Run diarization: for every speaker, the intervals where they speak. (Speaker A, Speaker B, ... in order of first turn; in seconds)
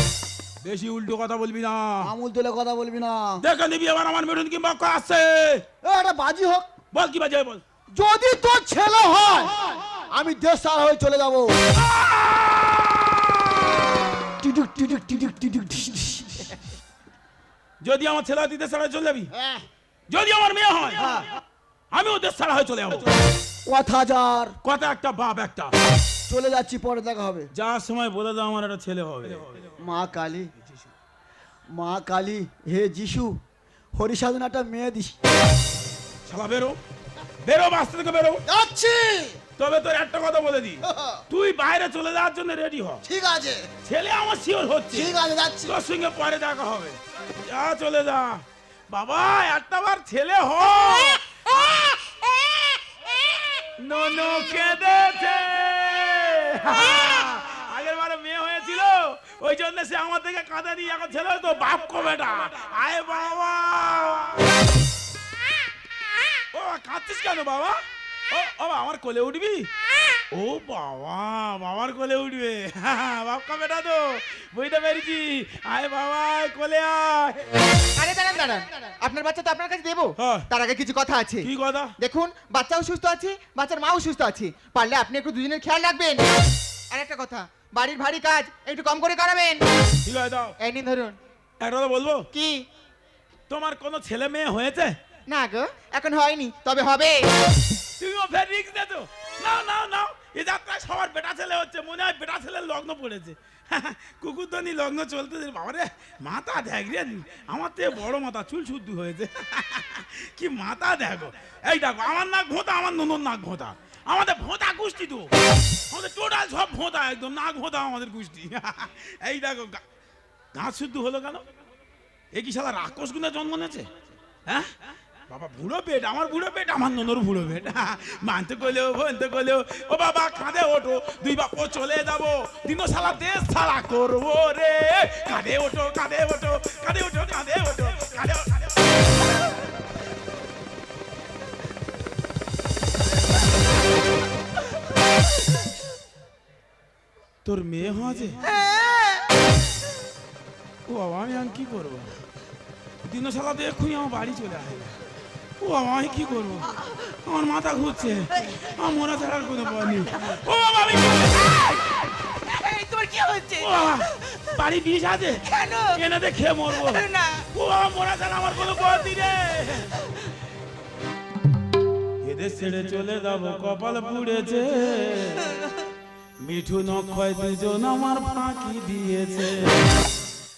Speaker A: 0.6-2.1, 3.4-5.6, 6.9-7.6, 11.7-13.7, 17.8-19.3, 20.1-21.2, 21.9-23.2, 24.6-25.7, 27.5-29.7, 36.3-36.8, 37.4-38.4, 39.6-43.0, 43.8-52.0, 53.8-64.5, 66.5-67.8, 68.3-69.7, 70.3-77.5, 80.2-80.5, 81.4-81.9, 90.0-90.5, 91.6-92.3, 93.5-95.0, 98.0-115.3, 115.9-119.8, 120.5-121.4, 122.3-123.9, 124.5-124.7, 125.3-138.7, 147.4-148.4, 150.8-152.2, 153.0-154.9, 155.6-161.8, 163.6-169.9, 172.2-175.4, 176.4-179.9
Speaker B: 2.0-3.4, 5.8-6.7, 7.9-11.6, 14.2-16.6, 19.3-19.6, 21.0-21.2, 23.6-24.6, 26.3-27.5, 29.8-30.5, 31.7-33.4, 33.9-35.2, 38.5-39.4, 40.8-41.2, 43.0-43.7, 44.9-45.8
Speaker C: 78.0-81.5, 82.0-86.2, 86.9-89.6, 90.6-91.2, 92.3-92.7, 95.3-97.2
Speaker D: 148.4-149.3, 161.5-164.5, 165.4-166.0, 166.7-167.4